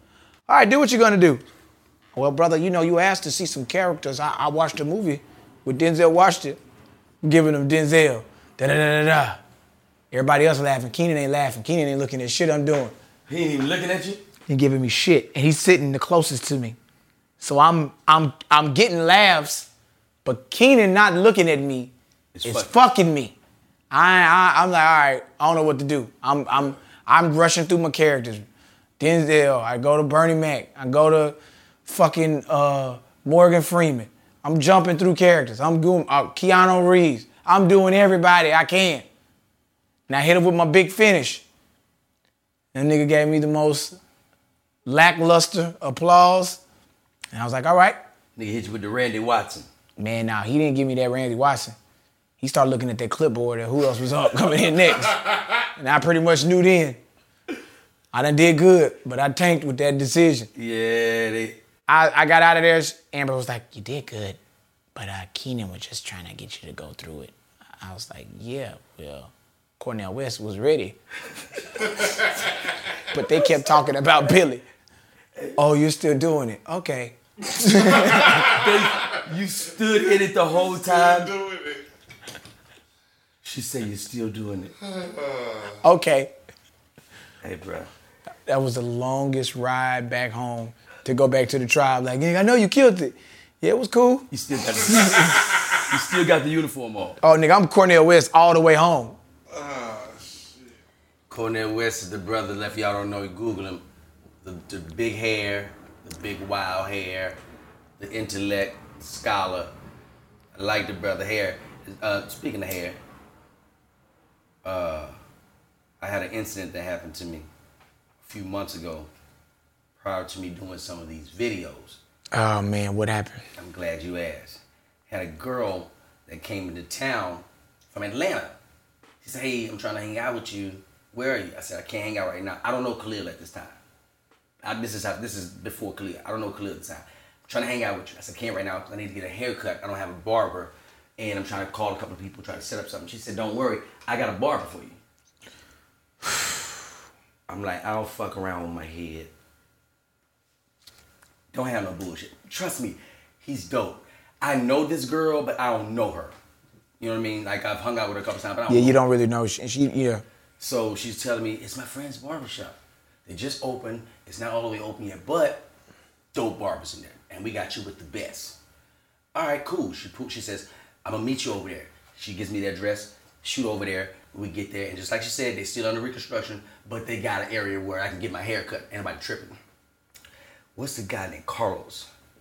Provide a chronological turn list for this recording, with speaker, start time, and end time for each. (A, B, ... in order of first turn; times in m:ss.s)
0:00.5-0:01.4 A
0:02.1-0:06.6 A
0:07.2-0:09.4 A
0:10.1-0:12.9 A
0:13.3-0:14.2 B
0:14.5-0:16.8 A
0:17.4-0:19.7 A
0:20.2-0:21.9 A
0:22.3-0:22.7 B
0:22.4-0:23.4 A
0:23.9-0:28.4 A
0:29.0-0:39.0 A
0:40.1-0:41.4 A
0:42.7-0:44.0 A
0:44.8-0:46.6 A
0:47.3-0:48.0 A
0:48.4-0:49.7 B
0:50.0-0:51.8 A
0:52.4-0:57.0 A
0:58.1-1:00.5 A
1:00.5-1:01.6 B
1:01.9-1:04.4 A
1:04.9-1:11.0 A
1:13.0-1:14.6 A
1:15.6-1:18.6 A
1:18.1-1:21.4 B
1:20.5-1:21.8 C
1:23.4-1:24.7 B
1:24.9-1:25.8 C
1:25.8-1:26.3 A
1:27.4-1:27.9 B
1:28.5-1:34.3 A
1:34.3-1:37.2 B
1:34.9-1:35.4 A
1:37.2-1:39.2 A
1:39.5-1:40.7 C
1:41.3-1:43.8 B
1:44.4-1:47.4 B
1:48.0-1:49.7 B
1:50.5-1:53.0 B
1:54.6-1:55.1 B
1:56.0-1:57.5 B
1:58.2-1:59.1 B
2:00.0-2:02.0 B
2:02.3-2:03.4 A
2:03.6-2:08.6 B
2:09.2-2:13.8 B
2:14.6-2:25.0 B
2:27.5-2:29.3 B
2:31.5-2:36.3 B
2:37.0-2:39.0 B
2:38.7-2:40.2 A
2:40.6-2:45.7 B
2:46.3-2:48.6 B
2:49.3-2:59.6 B
3:00.7-3:02.1 B